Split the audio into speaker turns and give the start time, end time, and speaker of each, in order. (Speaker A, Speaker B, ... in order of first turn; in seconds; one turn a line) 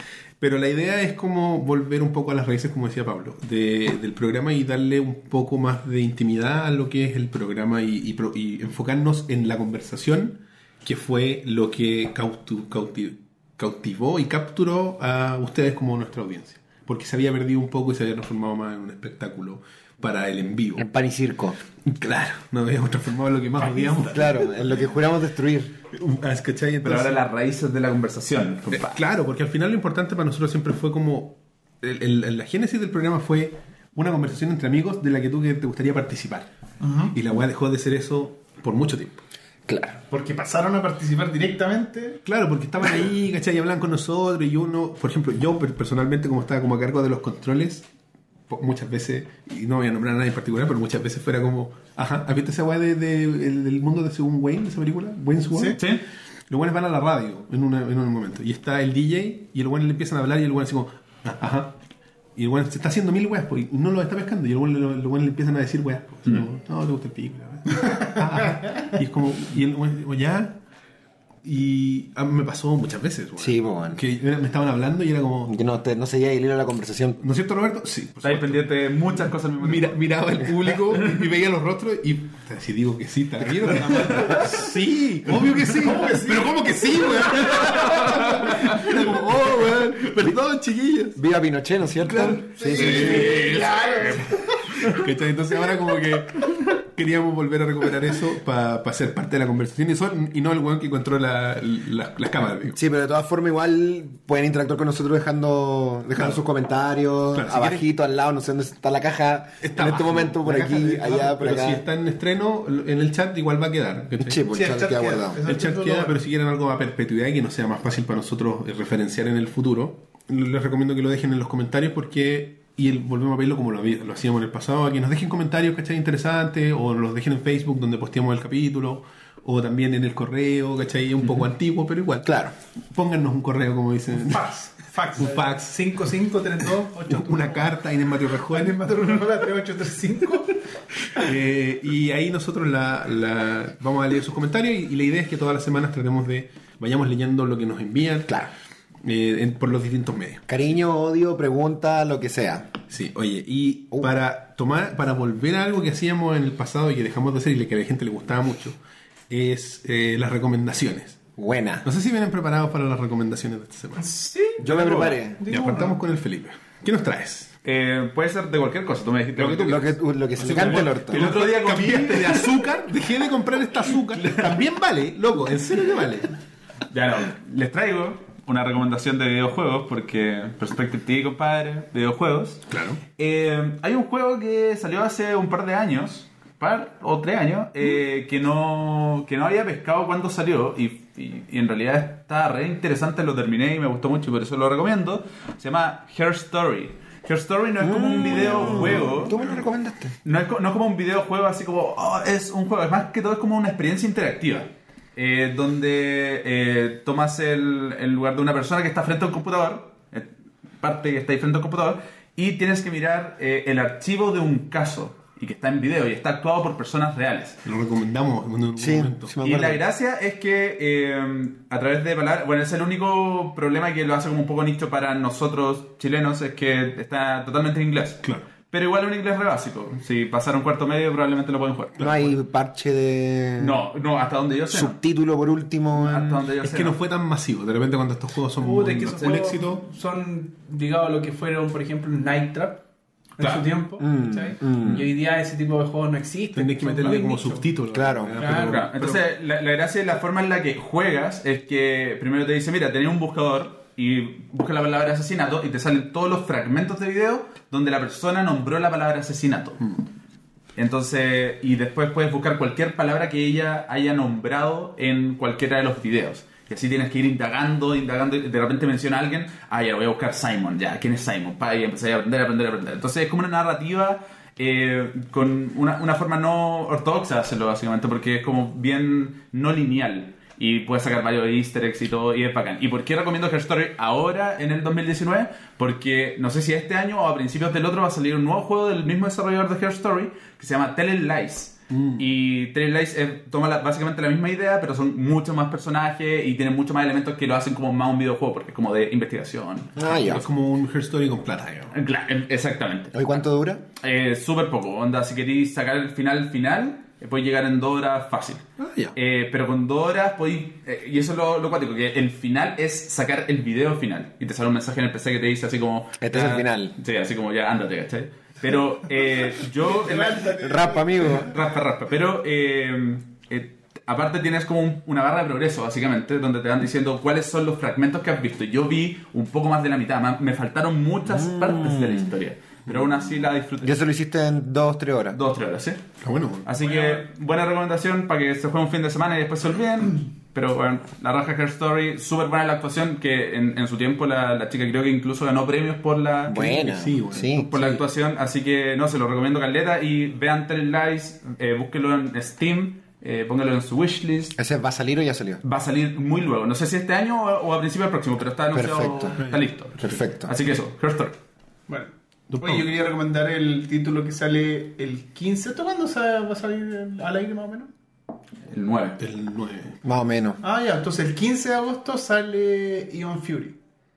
Speaker A: 0.4-20.8
Speaker B: 20.8-21.6
Speaker A: 21.8-24.8
Speaker B: 24.1-25.7
Speaker A: 25.9-27.2
Speaker C: 26.8-29.0
Speaker A: 28.7-36.5
Speaker D: 36.8-37.1
Speaker A: 37.1-39.2
Speaker B: 39.7-40.0
Speaker D: 40.1-42.2
Speaker A: 42.2-47.9
Speaker A: 48.5-55.8
Speaker D: 55.5-55.8
Speaker C: 55.8-56.0
Speaker A: 56.5-61.8
Speaker A: 62.4-70.6
Speaker A: 71.4-75.5
Speaker B: 73.4-74.0
Speaker B: 75.5-77.2
Speaker A: 77.2-78.7
Speaker C: 78.2-80.0
Speaker A: 79.6-91.2
Speaker B: 83.6-84.6
Speaker D: 85.7-88.0
Speaker B: 88.1-90.2
Speaker B: 91.2-93.7
Speaker A: 92.0-94.0
Speaker D: 92.5-94.6
Speaker C: 92.9-94.2
Speaker A: 94.8-102.8
Speaker B: 102.8-111.8
Speaker A: 106.1-106.4
Speaker A: 107.3-107.8
Speaker A: 109.6-114.4
Speaker B: 114.2-115.4
Speaker D: 114.5-116.2
Speaker A: 115.4-134.5
Speaker B: 132.2-132.5
Speaker D: 134.2-137.7
Speaker A: 135.2-135.8
Speaker A: 137.1-139.0
Speaker D: 138.4-140.6
Speaker A: 141.1-148.4
Speaker A: 149.0-150.5
Speaker B: 150.5-152.8
Speaker A: 152.9-158.8
Speaker A: 159.3-161.2
Speaker B: 161.4-161.8
Speaker A: 161.8-164.1
Speaker D: 164.0-166.0
Speaker B: 164.6-165.4
Speaker C: 164.7-165.0
Speaker A: 165.4-167.5
Speaker C: 167.6-169.9
Speaker B: 169.4-171.3
Speaker A: 170.4-176.3
Speaker C: 170.6-172.6
Speaker C: 176.9-182.6
Speaker A: 182.7-183.0
Speaker C: 183.2-199.4
Speaker B: 197.8-200.1
Speaker A: 198.4-199.6
Speaker C: 200.2-210.3
Speaker C: 210.8-217.6
Speaker A: 217.6-219.3
Speaker B: 218.8-219.8
Speaker C: 219.4-232.0
Speaker A: 232.0-232.3
Speaker B: 232.0-233.8
Speaker C: 233.6-235.0
Speaker B: 234.7-236.5
Speaker C: 235.9-237.0
Speaker A: 236.6-239.8
Speaker D: 238.6-242.8
Speaker C: 239.0-239.5
Speaker D: 243.4-247.7
Speaker A: 243.4-243.7
Speaker B: 244.0-245.1
Speaker A: 246.5-249.2
Speaker B: 247.9-248.4
Speaker D: 248.4-248.8
Speaker C: 248.5-259.8
Speaker C: 260.8-300.1
Speaker A: 291.9-292.2
Speaker B: 299.9-300.4
Speaker A: 300.1-301.9
Speaker C: 301.9-303.4
Speaker B: 303.1-303.8
Speaker C: 304.0-308.6
Speaker A: 308.8-309.1
Speaker C: 309.1-320.5
Speaker B: 316.2-316.9
Speaker D: 319.8-321.5
Speaker B: 320.6-321.5
Speaker C: 321.3-334.0
Speaker B: 331.3-332.3
Speaker A: 332.9-333.3
Speaker B: 333.8-335.4
Speaker C: 335.3-336.0
Speaker A: 336.2-336.7
Speaker C: 336.6-346.9
Speaker D: 336.8-337.2
Speaker B: 346.5-347.8
Speaker A: 346.6-348.0
Speaker C: 347.5-354.5
Speaker B: 354.6-355.6
Speaker C: 355.6-361.4
Speaker B: 358.7-359.4
Speaker B: 360.0-360.5
Speaker D: 361.9-367.9
Speaker A: 362.5-362.9
Speaker C: 368.7-369.2
Speaker A: 369.2-370.0
Speaker B: 370.0-370.6
Speaker D: 370.6-373.8